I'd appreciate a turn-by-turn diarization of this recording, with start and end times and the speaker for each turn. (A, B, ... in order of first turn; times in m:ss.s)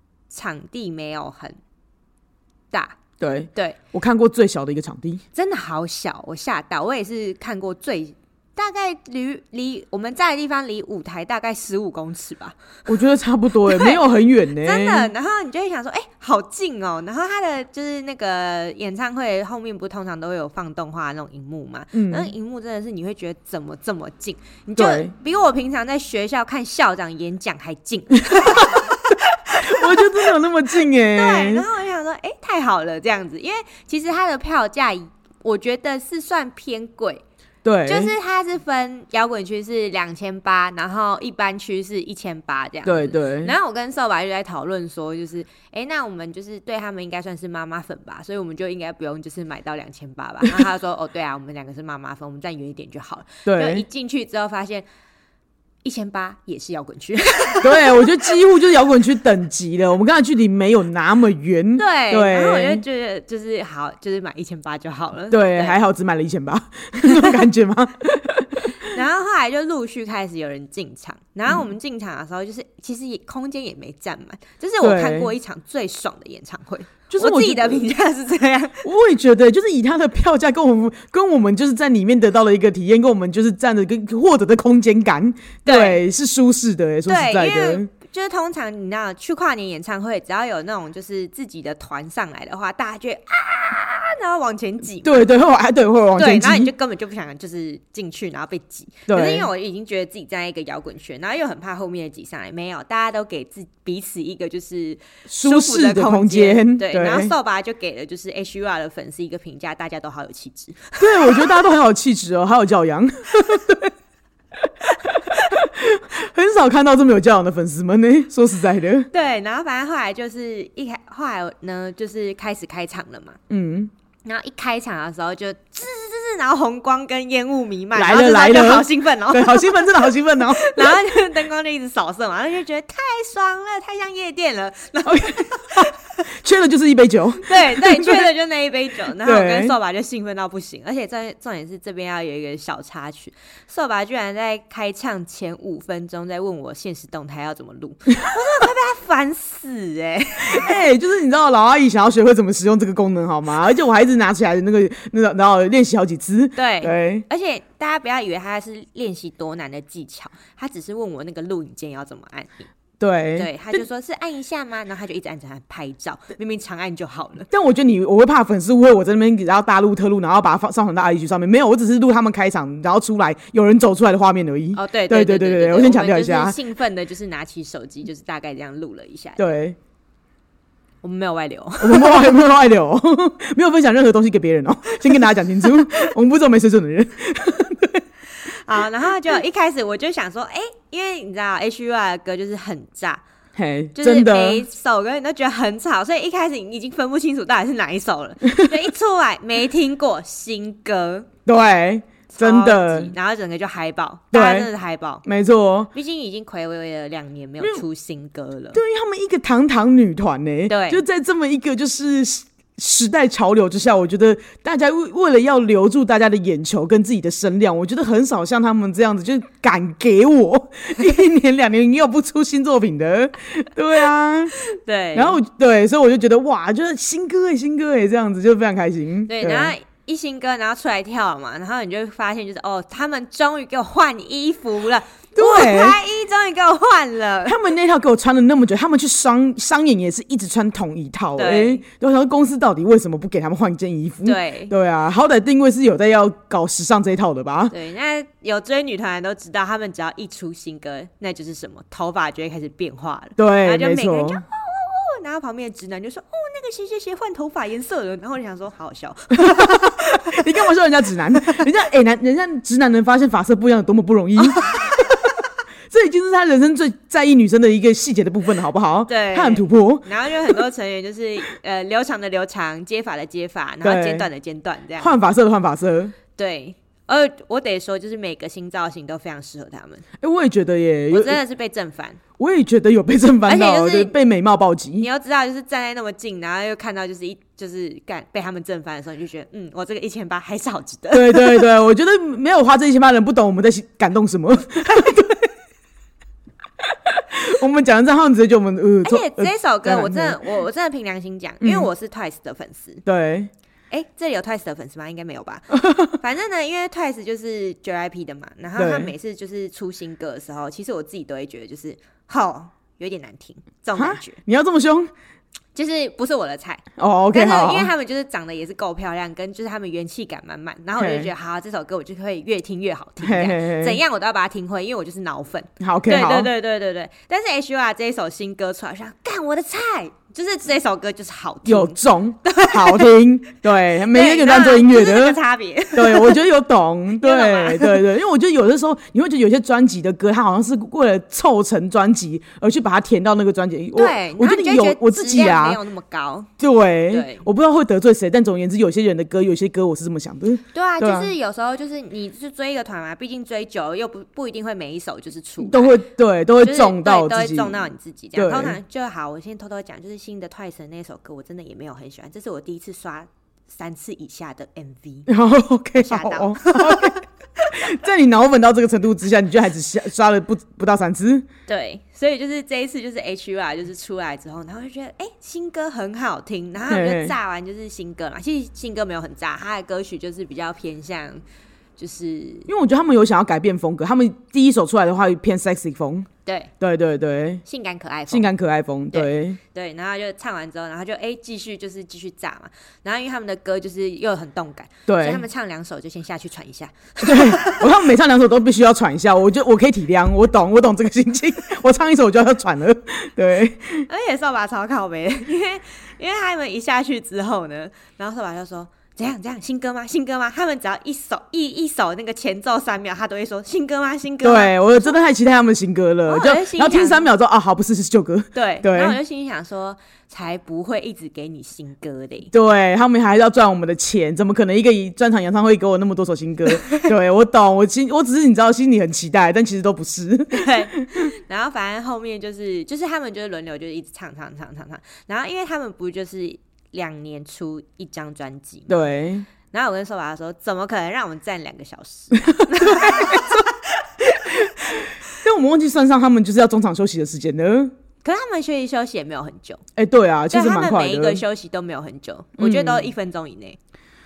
0:00.3-0:01.6 A
0:02.7-0:03.0 A
0:03.2-0:05.2 B
0:05.3-0:12.6 A
0:12.9-0:15.1 B
0:13.6-0:14.0 A
0:14.6-0:30.3 A
0:21.9-0:22.3 B
0:24.8-0:25.1 B
0:28.3-0:31.6 B
0:30.9-0:37.2 A
0:37.6-0:38.1 B
0:37.8-0:54.8 A
0:42.8-0:43.5 B
0:53.4-0:53.8 B
0:55.8-0:58.1 A
0:57.6-1:02.8 B
1:01.8-1:05.8 A
1:05.3-1:08.9 B
1:08.6-1:18.8 A
1:14.8-1:15.3 B
1:17.1-1:17.8 B
1:18.8-1:27.9 B
1:25.6-1:26.0 A
1:27.0-1:35.3 A
1:35.0-1:36.7 B
1:36.2-1:51.6 A
1:39.1-1:39.5 B
1:45.3-1:47.3 B
1:51.0-1:53.9 B
1:54.6-1:59.1 B
1:59.1-2:03.4 A
2:03.5-2:03.9 B
2:04.2-2:16.0 A
2:07.9-2:11.0 B
2:15.0-2:18.3 B
2:17.4-2:30.8 A
2:19.1-2:19.7 B
2:30.4-2:37.2 B
2:36.6-2:42.7 A
2:43.0-2:43.5 B
2:43.4-2:47.5 A
2:47.5-2:56.6 B
2:54.7-2:59.4 A
2:59.4-2:59.8 B
3:01.0-3:02.3 A
3:01.8-3:08.0 B
3:08.4-3:13.2 A
3:13.6-3:14.6 B
3:14.0-3:21.3 A
3:18.4-3:18.7 B
3:21.4-3:23.1 B
3:22.3-3:25.2 A
3:24.3-3:24.7 B
3:25.2-3:25.9 B
3:25.9-3:28.8 A
3:28.7-3:44.6 B
3:30.7-3:31.0 A
3:44.6-3:45.4 A
3:45.1-3:49.7 B
3:49.3-3:57.6 A
3:55.3-3:56.0 B
3:57.4-4:07.7 B
4:01.4-4:01.8 A
4:04.2-4:04.7 A
4:07.7-4:20.5 A
4:13.4-4:14.4 B
4:19.4-4:25.0 B
4:21.4-4:21.6 A
4:24.4-4:25.1 A
4:25.9-4:30.6 B
4:29.1-4:35.1 A
4:33.8-4:34.3 B
4:35.0-4:36.1 B
4:36.4-4:40.0 A
4:40.2-4:41.4 B
4:41.1-4:42.2 A
4:42.4-4:45.1 B
4:43.4-4:44.2 A
4:45.0-4:51.7 A
4:51.1-4:55.5 B
4:56.8-5:00.4 B
4:59.0-5:03.0 A
5:01.6-5:01.9 B
5:03.0-5:03.5 B
5:03.9-5:14.4 A
5:05.8-5:06.1 B
5:08.8-5:09.1 B
5:13.9-5:15.1 B
5:15.7-5:33.1 A
5:17.0-5:17.9 B
5:21.0-5:21.3 B
5:23.2-5:24.0 B
5:25.8-5:26.5 B
5:31.6-5:35.4 B
5:34.0-5:36.4 A
5:35.9-5:45.8 B
5:37.2-5:38.0 A
5:43.9-5:46.5 A
5:46.6-5:51.3 B
5:47.1-5:47.4 A
5:50.7-5:56.0 A
5:55.6-5:58.8 B
5:56.6-6:05.3 A
6:05.3-6:07.2 B
6:06.0-6:07.2 A
6:07.7-6:11.4 B
6:11.7-6:21.4 A
6:16.9-6:17.3 B
6:22.0-6:22.7 A
6:22.7-6:26.3 B
6:26.4-6:26.7 A
6:26.8-6:27.6 B
6:27.6-6:28.5 A
6:28.3-6:29.6 B
6:29.1-6:37.9 A
6:35.1-6:35.4 B
6:37.2-6:44.0 B
6:44.1-6:55.2 A
6:54.4-6:59.2 B
6:56.3-6:57.3 A
6:58.5-7:02.5 A
7:02.5-7:11.3 B
7:10.5-7:18.9 A
7:18.9-7:19.4 B
7:19.7-7:23.7 A
7:22.5-7:23.6 B
7:24.3-7:27.9 B
7:28.2-7:29.8 A
7:30.0-7:31.4 B
7:30.5-7:33.8 A
7:32.6-7:33.1 B